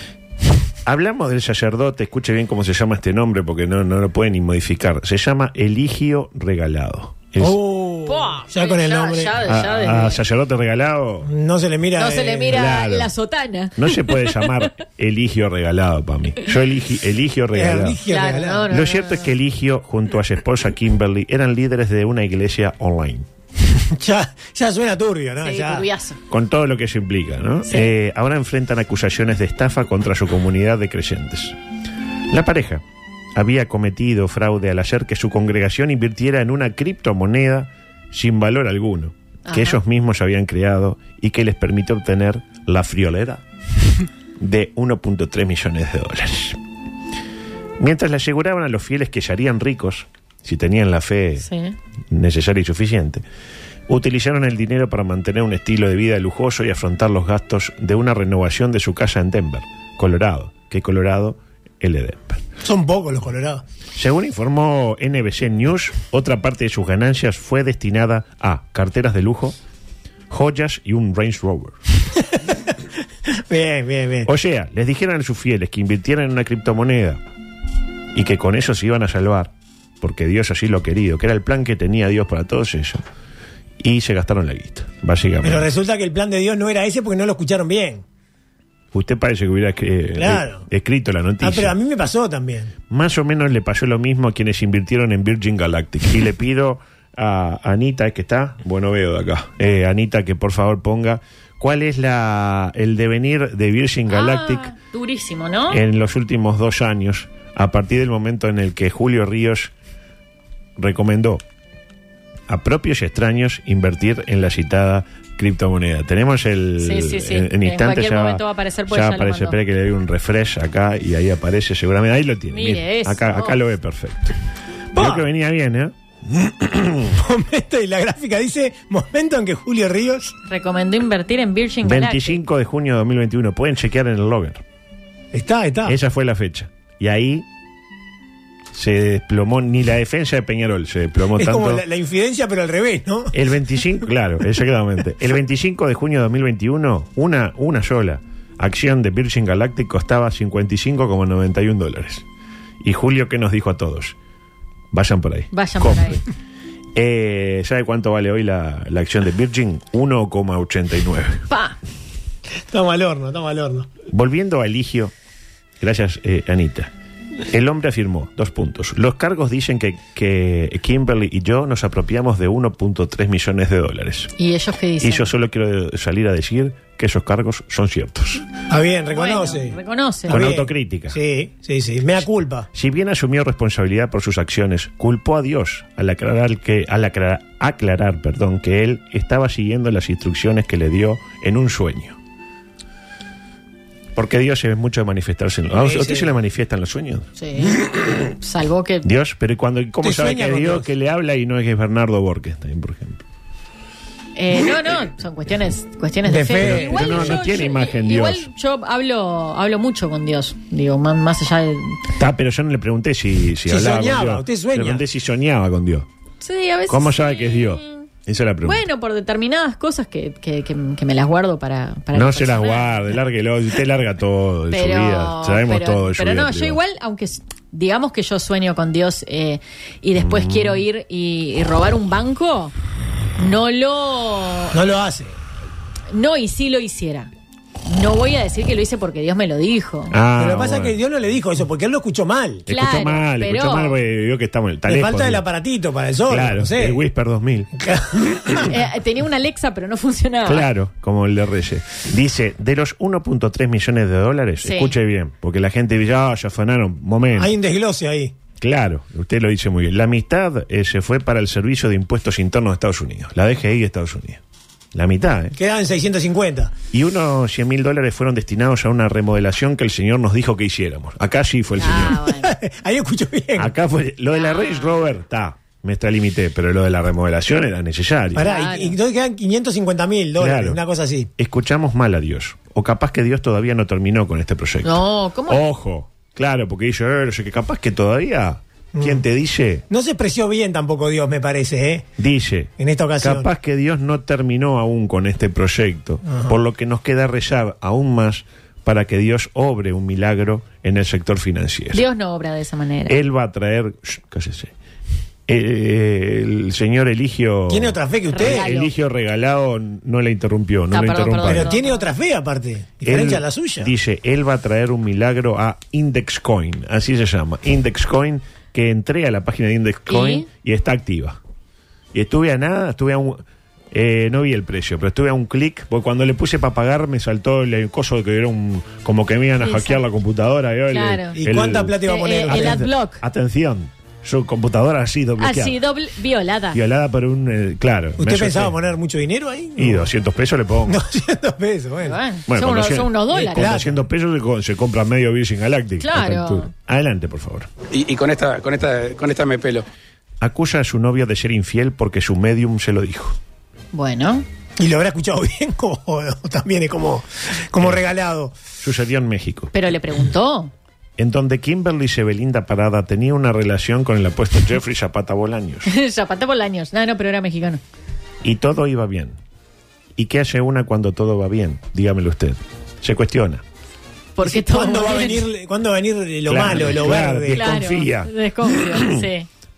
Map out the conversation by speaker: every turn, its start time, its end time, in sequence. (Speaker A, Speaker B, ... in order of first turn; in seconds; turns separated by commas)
Speaker A: 0.8-7.6, Speaker B: 7.4-9.4, Speaker C: 8.1-10.2, Speaker A: 9.4-11.3, Speaker B: 11.2-12.6, Speaker C: 12.0-14.6, Speaker A: 12.5-13.1, Speaker A: 13.8-18.0, Speaker B: 17.5-18.7, Speaker C: 18.1-19.3, Speaker A: 18.7-23.3, Speaker B: 23.8-25.9, Speaker C: 25.4-26.2, Speaker A: 26.3-31.6, Speaker A: 32.3-32.8, Speaker A: 33.3-43.4, Speaker C: 39.5-39.8, Speaker A: 44.4-46.6, Speaker A: 47.8-51.5, Speaker C: 51.4-51.8, Speaker A: 52.1-53.2, Speaker A: 53.9-62.4, Speaker B: 62.6-63.6, Speaker A: 64.0-69.6, Speaker A: 70.3-71.8, Speaker B: 73.5-74.3, Speaker A: 74.2-77.2, Speaker A: 78.1-83.0, Speaker A: 83.8-85.7, Speaker B: 85.4-88.0, Speaker A: 88.9-91.7, Speaker B: 90.2-90.7, Speaker B: 91.4-92.7, Speaker A: 92.9-104.7, Speaker C: 104.1-105.8, Speaker A: 105.7-109.7, Speaker A: 110.8-111.4, Speaker A: 112.5-124.3, Speaker C: 116.8-119.6, Speaker C: 122.5-123.6, Speaker B: 124.9-125.2, Speaker A: 124.9-127.1, Speaker B: 127.1-130.3, Speaker C: 130.5-132.4, Speaker A: 131.8-134.6, Speaker B: 135.3-136.0, Speaker A: 135.8-137.4, Speaker A: 138.7-141.8, Speaker B: 141.3-143.3, Speaker A: 143.3-152.2, Speaker A: 152.8-154.2, Speaker A: 154.9-156.2, Speaker C: 155.5-156.2, Speaker A: 156.9-161.4, Speaker C: 161.5-161.8, Speaker B: 162.7-163.9, Speaker A: 164.1-165.1, Speaker A: 165.8-166.9, Speaker A: 167.5-174.3, Speaker C: 174.4-175.3, Speaker A: 175.0-178.4, Speaker B: 178.7-182.7, Speaker C: 179.1-180.4, Speaker A: 180.3-181.2, Speaker A: 182.7-192.2, Speaker A: 194.1-197.3, Speaker B: 195.7-196.3, Speaker C: 197.4-197.8, Speaker C: 198.4-199.1, Speaker A: 199.0-203.2, Speaker B: 200.0-200.9, Speaker C: 204.3-212.0, Speaker B: 206.2-207.3, Speaker A: 206.6-208.5, Speaker A: 212.2-216.1, Speaker B: 213.7-215.0, Speaker C: 216.4-218.1, Speaker A: 216.9-218.8, Speaker C: 218.6-223.1, Speaker A: 222.1-226.8, Speaker C: 224.7-232.7, Speaker A: 230.2-230.8, Speaker C: 233.4-234.8, Speaker B: 234.7-235.3, Speaker C: 236.1-237.3, Speaker C: 237.8-240.2, Speaker A: 240.1-241.0, Speaker B: 240.4-242.6, Speaker A: 242.7-245.4, Speaker C: 242.7-244.0, Speaker B: 244.9-247.0, Speaker A: 246.3-247.7, Speaker B: 247.8-248.7, Speaker C: 248.7-250.7, Speaker A: 250.4-257.5, Speaker C: 254.6-254.9, Speaker B: 257.4-258.3, Speaker A: 258.6-264.4, Speaker A: 264.9-265.6, Speaker B: 265.6-266.7, Speaker A: 266.9-272.2, Speaker C: 271.8-272.5, Speaker B: 272.2-273.7, Speaker A: 273.6-278.5, Speaker C: 274.3-275.0, Speaker B: 278.3-281.3, Speaker C: 278.4-278.9, Speaker A: 280.4-280.8, Speaker A: 281.4-289.8, Speaker C: 284.8-285.6, Speaker B: 288.9-289.2, Speaker B: 289.9-292.1, Speaker A: 292.2-302.0, Speaker B: 292.8-293.5, Speaker B: 296.2-296.5, Speaker C: 301.9-303.1, Speaker A: 303.1-304.7, Speaker A: 305.5-311.7, Speaker B: 307.7-308.7, Speaker C: 308.3-308.9, Speaker C: 310.9-312.1, Speaker B: 311.4-313.9, Speaker A: 313.0-321.4, Speaker C: 320.1-320.4, Speaker A: 322.1-335.8, Speaker C: 329.6-330.0, Speaker C: 330.9-331.4, Speaker B: 331.4-332.9, Speaker C: 332.0-333.2, Speaker C: 335.4-336.8, Speaker A: 336.7-338.8, Speaker B: 338.2-340.1, Speaker A: 339.8-341.0, Speaker B: 340.9-342.2, Speaker C: 342.0-343.7, Speaker A: 342.5-347.7, Speaker B: 343.4-344.0, Speaker C: 346.0-346.7, Speaker D: 347.9-349.9, Speaker A: 350.4-353.4, Speaker C: 353.9-354.4, Speaker B: 354.8-358.5, Speaker A: 358.8-359.7, Speaker C: 359.7-360.7, Speaker A: 361.2-365.9, Speaker C: 365.9-367.8, Speaker A: 368.4-369.4, Speaker A: 370.1-373.6, Speaker C: 374.4-375.5, Speaker B: 374.4-377.7, Speaker A: 376.4-379.2, Speaker C: 377.5-379.5